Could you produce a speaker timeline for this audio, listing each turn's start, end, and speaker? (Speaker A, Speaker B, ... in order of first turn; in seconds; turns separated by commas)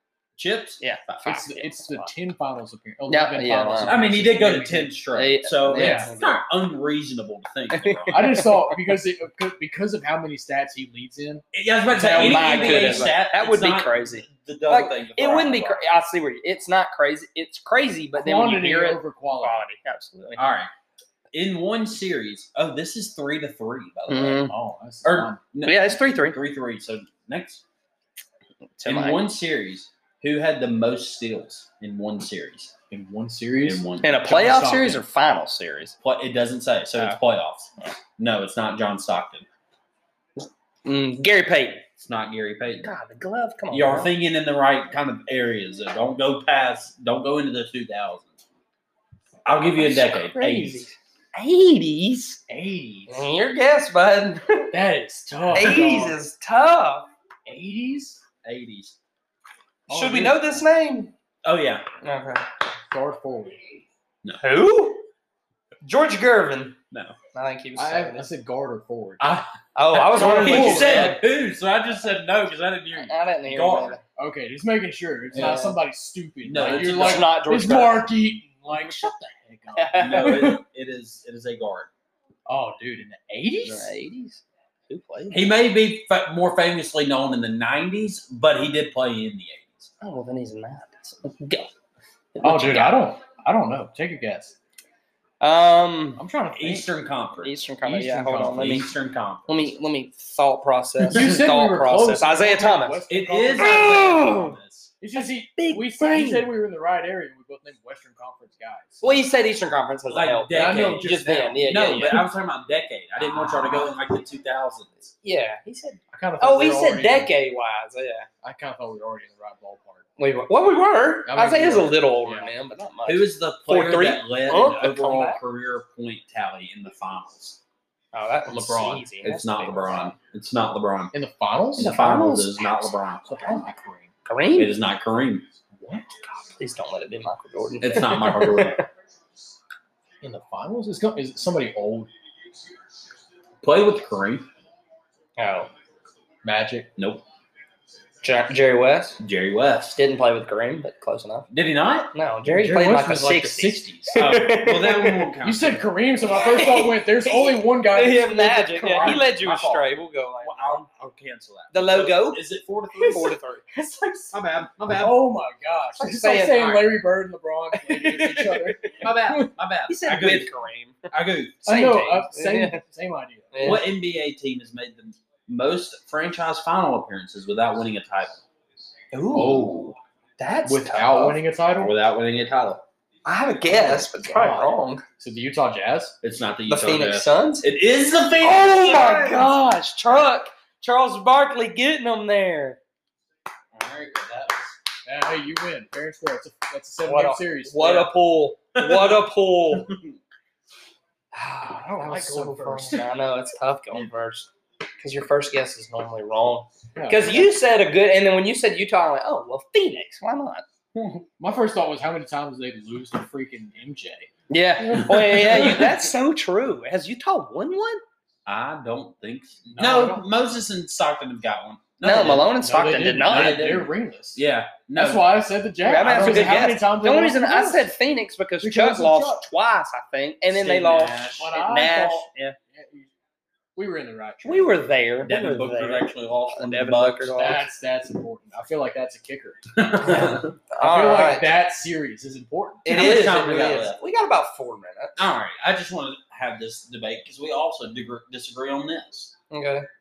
Speaker A: 0.4-1.1, Speaker B: 0.8-2.1, Speaker C: 1.2-5.0, Speaker B: 3.1-4.0, Speaker A: 3.8-8.6, Speaker B: 5.1-6.4, Speaker C: 5.7-6.1, Speaker B: 7.7-8.8, Speaker C: 8.1-13.1, Speaker A: 11.5-15.8, Speaker B: 12.1-20.4, Speaker C: 18.1-19.6, Speaker A: 20.4-20.7, Speaker A: 21.3-24.4, Speaker B: 24.1-24.5, Speaker C: 24.4-25.4, Speaker A: 25.1-27.6, Speaker B: 25.6-26.4, Speaker B: 28.8-29.2, Speaker A: 28.9-32.7, Speaker C: 32.9-35.0, Speaker A: 33.6-34.1, Speaker B: 34.0-36.0, Speaker A: 36.0-39.5, Speaker B: 40.4-41.9, Speaker A: 42.0-42.9, Speaker B: 42.8-44.1, Speaker A: 43.7-48.3, Speaker A: 49.4-50.9, Speaker B: 49.8-52.4, Speaker C: 52.5-53.3, Speaker B: 53.1-54.7, Speaker C: 54.7-56.2, Speaker B: 55.5-57.1, Speaker C: 57.5-58.2, Speaker A: 58.4-59.0, Speaker C: 59.9-60.6, Speaker B: 59.9-61.1, Speaker A: 61.4-61.9, Speaker B: 62.0-62.5, Speaker C: 62.9-63.6, Speaker B: 64.4-65.1, Speaker B: 65.8-66.8, Speaker A: 66.9-67.2, Speaker B: 67.3-68.2, Speaker C: 67.8-69.2, Speaker A: 69.2-74.0, Speaker B: 69.7-71.2, Speaker C: 70.2-71.2, Speaker B: 72.9-74.0, Speaker C: 74.2-80.6, Speaker B: 75.3-75.8, Speaker A: 76.4-77.3, Speaker B: 76.6-78.1, Speaker B: 78.7-79.1, Speaker B: 79.7-80.5, Speaker A: 80.0-81.9, Speaker C: 82.5-83.9, Speaker B: 83.6-85.5, Speaker A: 85.3-89.9, Speaker B: 90.0-91.7, Speaker B: 92.3-93.0, Speaker C: 92.4-94.6, Speaker B: 95.4-96.2, Speaker C: 96.2-96.9, Speaker A: 96.5-97.6, Speaker B: 97.4-98.9, Speaker C: 97.8-98.8, Speaker A: 98.5-99.5, Speaker B: 99.5-103.0, Speaker C: 101.0-104.3, Speaker A: 103.1-104.9, Speaker B: 103.6-104.5, Speaker C: 105.0-109.2, Speaker B: 105.2-106.5, Speaker B: 109.0-112.2, Speaker A: 110.1-115.1, Speaker C: 110.5-112.2, Speaker C: 113.2-113.9, Speaker B: 115.2-118.3, Speaker C: 116.1-117.3, Speaker C: 118.4-120.1, Speaker B: 120.2-125.4, Speaker C: 121.2-122.5, Speaker A: 123.1-127.6, Speaker B: 128.1-130.1, Speaker C: 128.5-129.1, Speaker A: 129.2-131.1, Speaker C: 131.1-132.0, Speaker A: 131.8-133.6, Speaker B: 131.8-132.9, Speaker C: 133.3-134.1, Speaker B: 134.2-134.8, Speaker A: 134.6-135.5, Speaker C: 135.7-136.2, Speaker B: 136.3-138.8, Speaker A: 137.8-138.8, Speaker C: 140.2-142.1, Speaker A: 143.6-144.4, Speaker B: 145.4-145.7, Speaker C: 146.4-146.9, Speaker A: 147.0-147.2, Speaker B: 148.2-149.2, Speaker A: 149.2-149.9, Speaker B: 149.9-151.5, Speaker A: 151.5-152.1, Speaker B: 152.1-155.2, Speaker C: 152.4-154.2, Speaker A: 154.2-155.9, Speaker C: 155.4-159.2, Speaker B: 156.3-160.9, Speaker A: 159.0-159.9, Speaker A: 160.4-163.4, Speaker B: 161.7-162.4, Speaker B: 163.0-163.7, Speaker C: 163.7-164.3, Speaker A: 164.3-165.2, Speaker C: 164.9-169.5, Speaker B: 166.0-166.9, Speaker B: 167.8-169.1, Speaker A: 169.0-170.5, Speaker B: 169.9-171.1, Speaker A: 171.1-171.6, Speaker C: 171.6-173.8, Speaker B: 171.6-172.8, Speaker B: 173.5-173.8, Speaker A: 173.6-178.4, Speaker B: 179.1-179.8, Speaker A: 179.3-179.9, Speaker C: 179.3-179.7, Speaker B: 180.4-181.4, Speaker C: 180.7-181.9, Speaker A: 181.8-182.8, Speaker B: 183.2-185.0, Speaker C: 183.7-186.2, Speaker A: 186.2-189.6, Speaker B: 186.7-187.7, Speaker B: 188.4-192.8, Speaker A: 193.7-194.8, Speaker C: 195.1-198.1, Speaker B: 197.0-199.9, Speaker A: 198.8-199.2, Speaker A: 199.8-200.0, Speaker B: 201.3-210.6, Speaker C: 201.9-203.2, Speaker C: 206.9-207.5, Speaker A: 210.9-211.2, Speaker C: 211.4-214.3, Speaker B: 214.5-218.0, Speaker A: 214.9-216.0, Speaker A: 218.4-222.5, Speaker C: 219.7-220.3, Speaker B: 222.0-223.6, Speaker C: 222.1-224.4, Speaker A: 223.2-225.3, Speaker C: 224.9-227.9, Speaker B: 225.8-232.6, Speaker A: 226.0-226.7, Speaker C: 228.6-229.4, Speaker A: 230.5-231.4, Speaker C: 231.4-233.1, Speaker C: 233.8-234.7, Speaker B: 234.4-237.7, Speaker A: 235.2-237.4, Speaker C: 237.4-243.2, Speaker A: 239.8-240.6, Speaker B: 240.1-241.5, Speaker B: 242.8-245.2, Speaker A: 242.9-244.0, Speaker A: 245.2-249.3, Speaker B: 249.5-249.9